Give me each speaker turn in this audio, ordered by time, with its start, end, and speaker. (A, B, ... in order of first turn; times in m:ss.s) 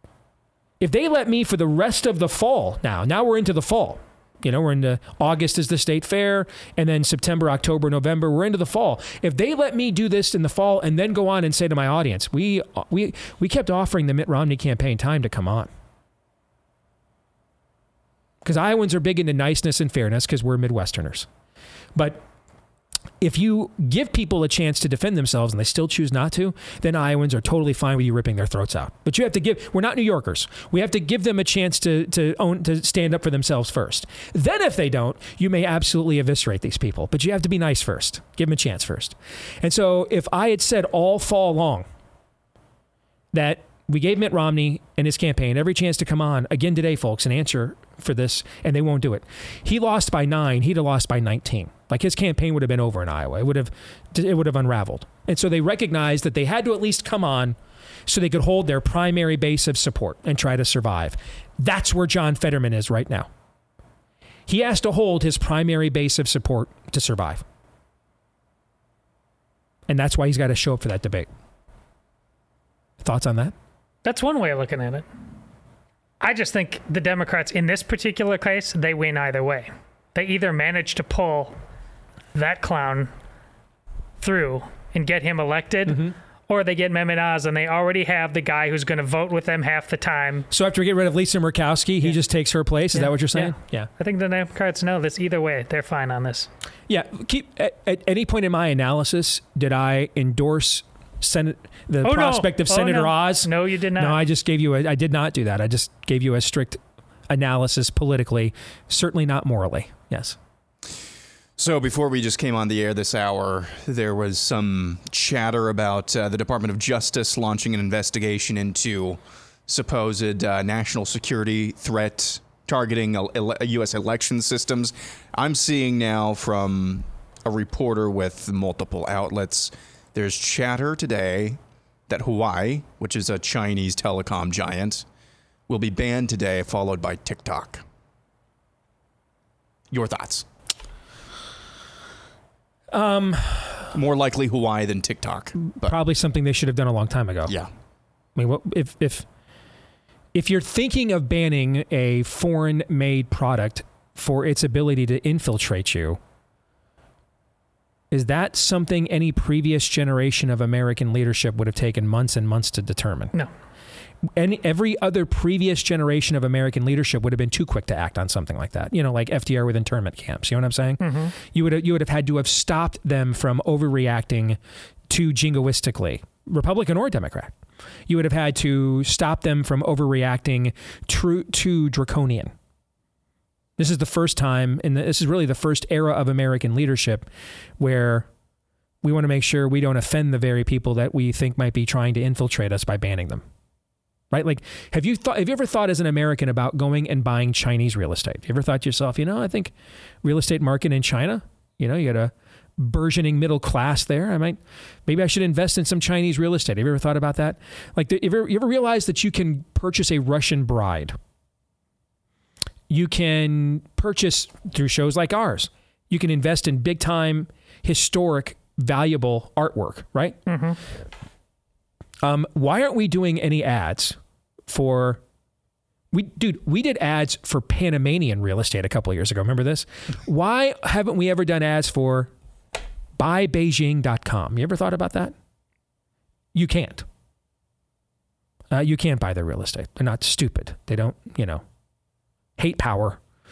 0:00.8-0:15.7 A
0:18.4-0:21.3 A
0:21.9-0:22.2 A
0:23.2-0:41.9 A
0:43.3-1:03.3 A
1:04.5-1:07.4 A
1:09.9-1:11.3 A
1:13.0-1:13.6 A
1:14.0-1:15.1 B
1:16.2-1:21.6 B
1:22.3-1:23.1 B
1:24.2-1:30.5 B
1:25.9-1:26.1 A
1:30.5-1:33.9 A
1:32.9-1:36.5 B
1:36.9-1:50.4 A
1:42.0-1:44.2 B
1:51.6-2:11.6 C
2:12.1-2:15.0 C
2:15.7-2:17.8 C
2:19.9-2:20.4 C
2:22.9-2:23.9 A
2:23.9-2:25.9 C
2:25.8-2:27.5 A
2:28.4-2:29.3 A
2:30.3-2:36.2 A
2:38.1-2:43.3 A
2:44.4-2:54.6 A
2:51.0-2:51.3 B
2:55.1-2:57.5 A
2:58.1-3:02.5 A
3:03.8-3:07.3 A
3:07.8-3:08.3 A
3:09.0-3:13.4 A
3:14.3-3:19.7 A
3:20.2-3:31.2 A
3:32.9-3:40.4 A
3:40.5-3:40.8 B
3:42.2-3:44.2 A
3:44.7-3:45.2 A
3:46.1-3:52.3 A
3:53.2-3:55.3 A
3:56.5-3:57.1 A
3:58.7-4:01.6 A
4:02.6-4:03.2 A